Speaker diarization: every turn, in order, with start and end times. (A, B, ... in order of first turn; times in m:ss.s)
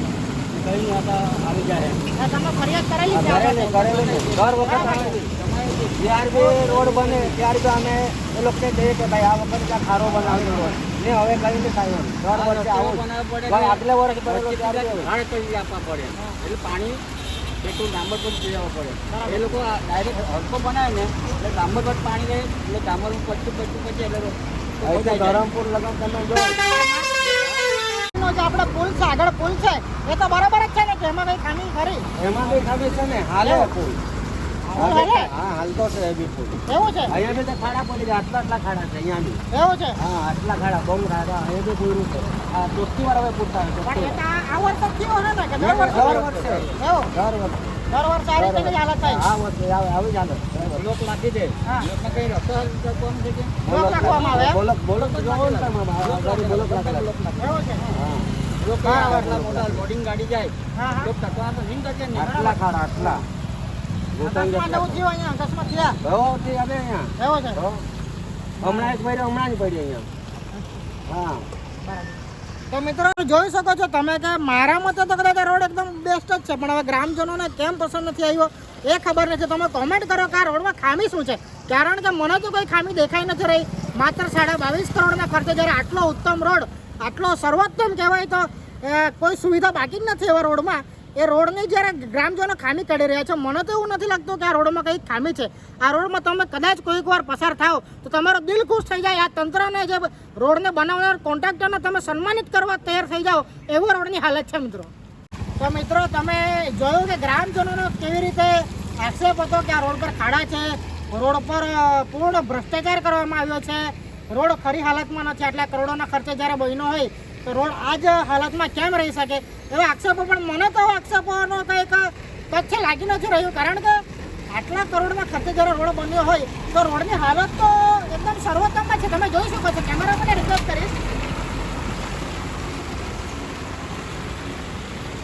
0:00.5-0:02.0 A
0:02.1-0:03.9 B
0:03.1-0:05.3 C
0:03.3-0:07.4 A
0:04.6-0:05.2 B
0:06.0-0:15.1 C
0:10.0-0:10.8 A
0:12.3-0:17.0 A
0:17.6-0:25.4 A
0:19.1-0:19.6 B
0:24.8-0:26.6 C
0:26.7-0:27.1 B
0:28.1-0:32.1 B
0:32.2-0:33.0 A
0:32.2-0:34.0 C
0:33.4-0:33.7 B
0:34.7-0:35.3 B
0:34.7-0:39.4 C
0:36.7-0:37.2 B
0:39.5-0:40.0 B
0:40.0-0:44.2 C
0:43.8-0:46.2 B
0:45.6-0:47.7 C
0:45.6-0:46.8 A
0:46.8-0:47.1 B
0:47.9-0:49.2 B
0:48.4-0:50.9 C
0:50.6-0:53.6 A
0:53.6-0:57.1 C
0:53.6-0:54.6 B
0:54.4-0:57.9 A
0:57.4-0:57.9 B
0:57.9-0:58.3 C
0:58.6-1:02.3 A
0:58.8-0:59.3 B
0:59.0-0:59.9 C
1:00.7-1:01.1 B
1:02.1-1:03.2 C
1:02.2-1:03.2 B
1:04.1-1:05.0 C
1:04.2-1:06.0 B
1:06.0-1:07.8 C
1:07.2-1:07.6 B
1:08.6-1:09.0 B
1:08.6-1:10.1 C
1:11.1-1:11.5 C
1:11.8-1:44.9 B
1:45.6-2:11.0 B